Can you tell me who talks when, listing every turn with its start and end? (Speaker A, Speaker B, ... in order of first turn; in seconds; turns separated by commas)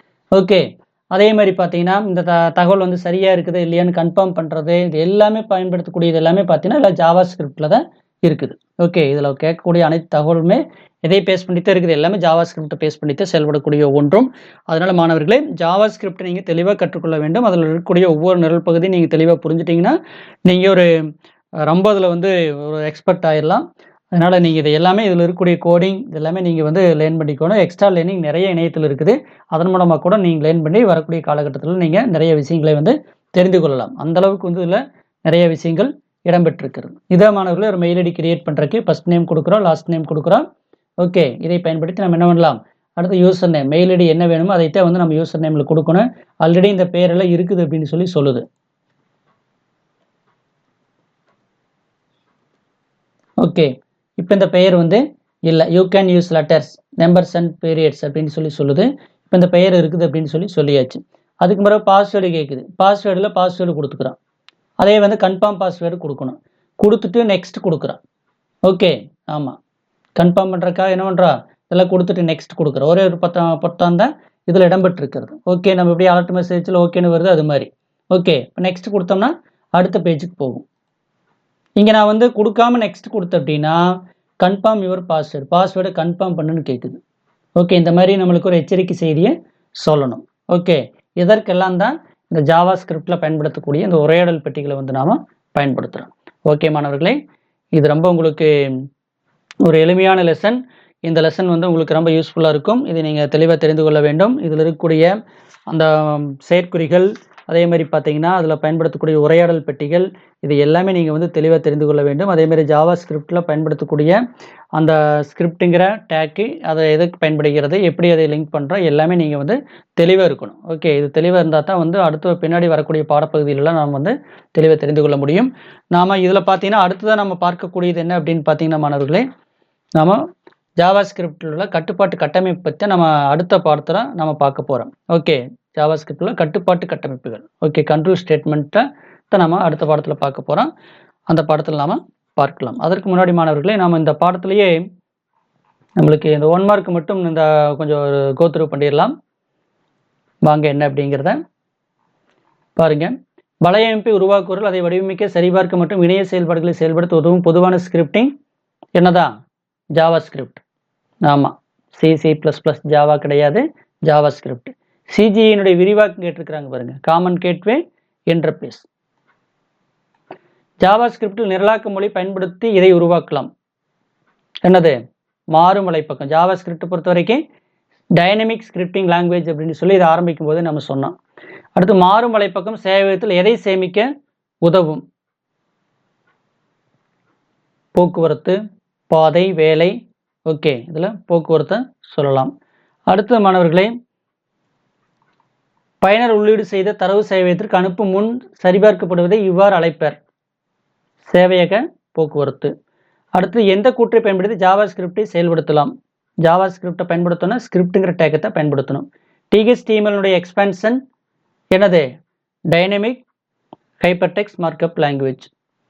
Speaker A: 0.4-20.9, Speaker A: 21.7-40.4, Speaker A: 41.0-48.4, Speaker A: 53.4-64.2, Speaker A: 64.8-68.0, Speaker A: 68.7-69.6, Speaker A: 70.2-80.7, Speaker A: 81.8-83.8, Speaker A: 84.4-87.0, Speaker A: 87.6-97.2, Speaker A: 97.8-98.5, Speaker A: 99.7-105.1, Speaker A: 105.7-114.2, Speaker A: 114.8-129.2, Speaker A: 130.8-140.7, Speaker A: 141.3-144.8, Speaker A: 146.0-149.1, Speaker A: 150.5-151.4, Speaker A: 152.8-153.1, Speaker A: 153.7-158.3, Speaker A: 158.9-159.3, Speaker A: 160.0-160.6, Speaker A: 161.3-167.8, Speaker A: 168.3-168.8, Speaker A: 170.8-173.5, Speaker A: 174.7-175.0, Speaker A: 175.5-177.4, Speaker A: 178.2-181.1, Speaker A: 181.8-184.1, Speaker A: 184.7-185.0, Speaker A: 188.0-188.6, Speaker A: 189.1-189.9, Speaker A: 190.5-192.5, Speaker A: 193.1-193.9, Speaker A: 196.0-200.2, Speaker A: 201.2-202.7, Speaker A: 203.4-205.9, Speaker A: 206.4-211.0, Speaker A: 211.8-212.1, Speaker A: 212.7-213.2, Speaker A: 214.0-215.5